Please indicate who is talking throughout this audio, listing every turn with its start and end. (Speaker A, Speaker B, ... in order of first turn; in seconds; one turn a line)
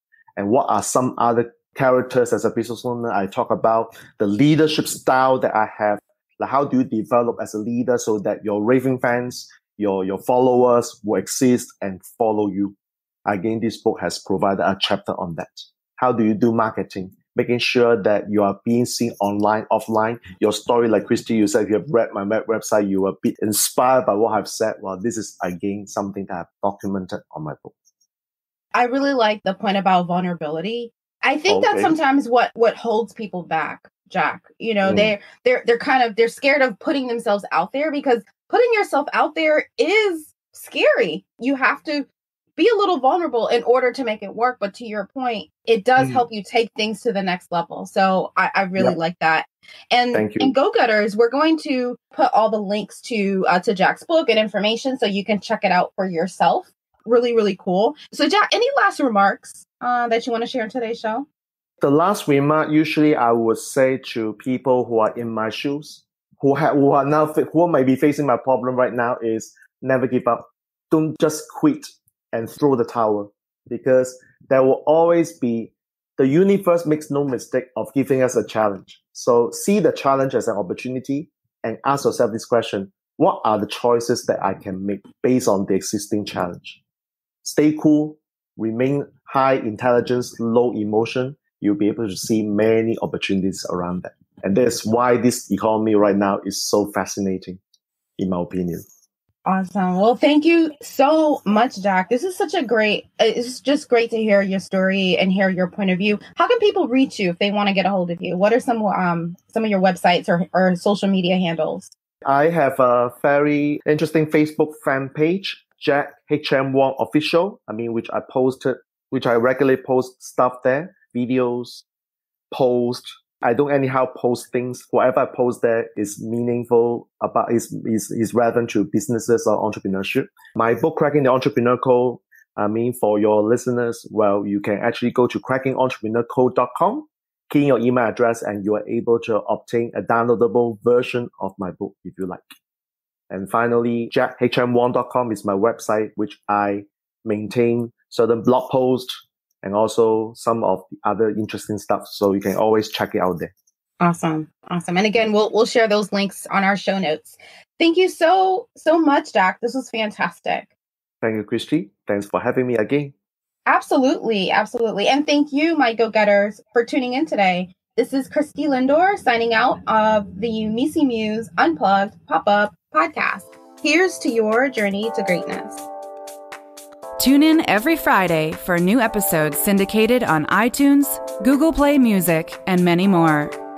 Speaker A: 0.4-12.7
Speaker A: 13.2-27.7
Speaker B: 28.7-61.2
Speaker A: 31.5-31.9
Speaker A: 34.8-35.1
Speaker A: 46.0-46.2
Speaker A: 50.1-50.5
Speaker A: 61.8-86.8
Speaker A: 87.4-97.6
Speaker A: 98.2-98.9
Speaker B: 99.5-111.9
Speaker A: 112.2-121.8
Speaker A: 122.5-142.4
Speaker A: 143.3-153.5
Speaker B: 154.0-160.7
Speaker A: 161.2-163.1
Speaker B: 163.7-175.9
Speaker C: 177.2-183.6